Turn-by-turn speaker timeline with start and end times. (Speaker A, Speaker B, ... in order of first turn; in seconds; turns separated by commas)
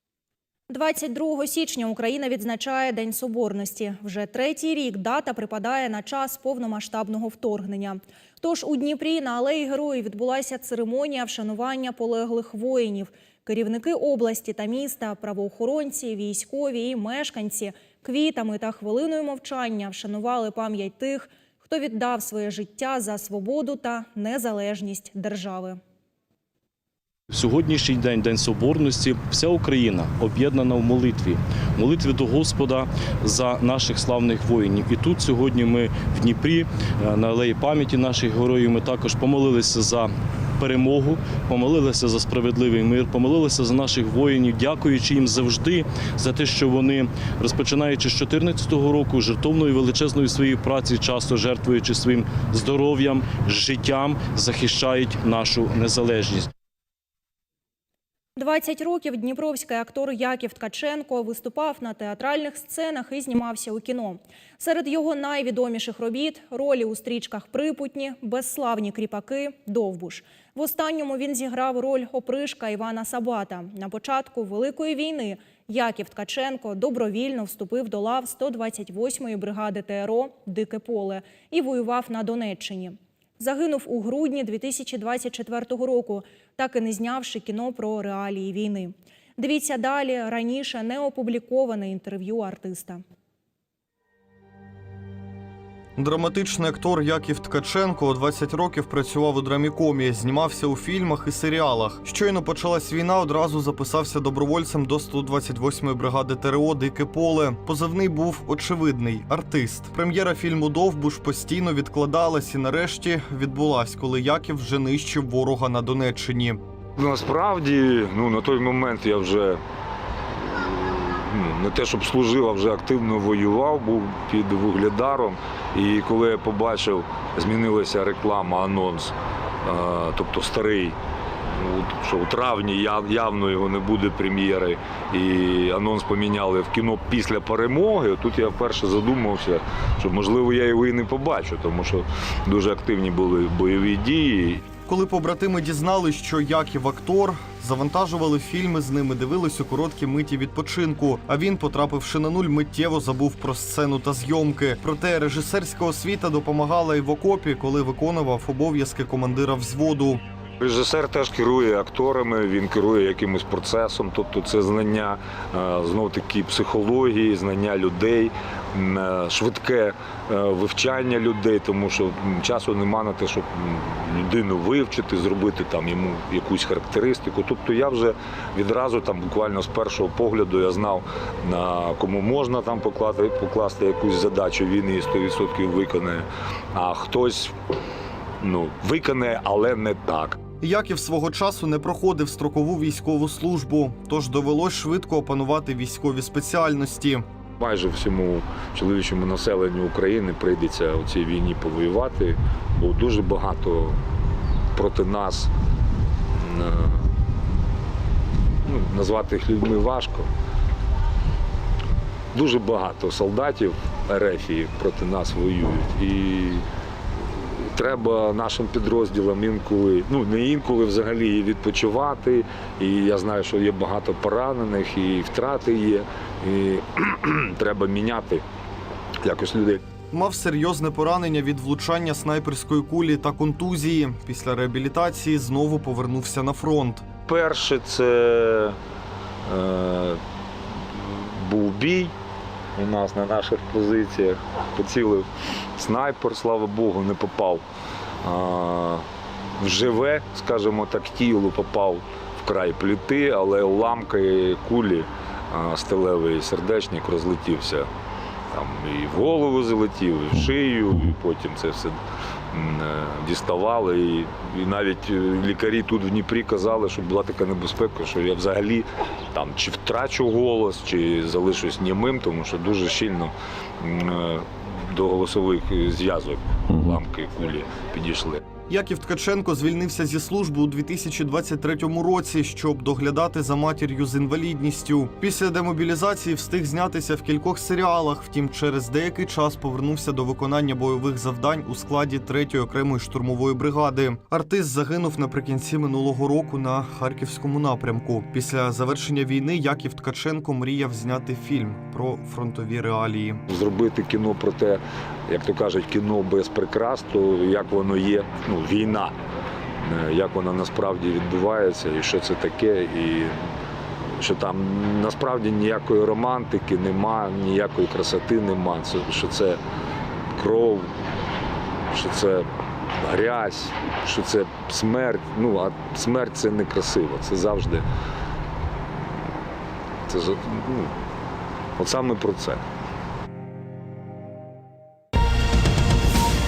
Speaker A: 0.7-25.8, Speaker B: 27.3-56.5, Speaker A: 58.4-93.0, Speaker C: 96.0-116.6, Speaker D: 117.0-119.6, Speaker D: 120.5-129.1, Speaker D: 129.7-131.0, Speaker D: 131.6-144.6, Speaker C: 144.9-160.2, Speaker D: 160.6-187.5, Speaker D: 188.4-190.4, Speaker C: 190.6-197.2, Speaker D: 197.6-204.0, Speaker D: 204.8-205.5, Speaker D: 206.3-207.1, Speaker D: 208.7-210.3, Speaker D: 212.3-216.7, Speaker D: 217.3-228.4, Speaker D: 229.2-229.8, Speaker C: 230.1-237.1, Speaker D: 237.3-238.8, Speaker D: 239.5-240.2, Speaker D: 240.9-242.1, Speaker D: 242.8-245.3, Speaker D: 245.8-247.6, Speaker D: 248.2-249.1, Speaker D: 249.6-257.9, Speaker D: 258.5-262.0, Speaker D: 262.5-278.4, Speaker C: 278.7-303.4, Speaker D: 303.5-309.1, Speaker D: 309.8-313.3, Speaker D: 314.2-319.6, Speaker D: 320.4-320.9, Speaker D: 321.9-327.8, Speaker D: 330.1-330.9, Speaker D: 331.8-332.6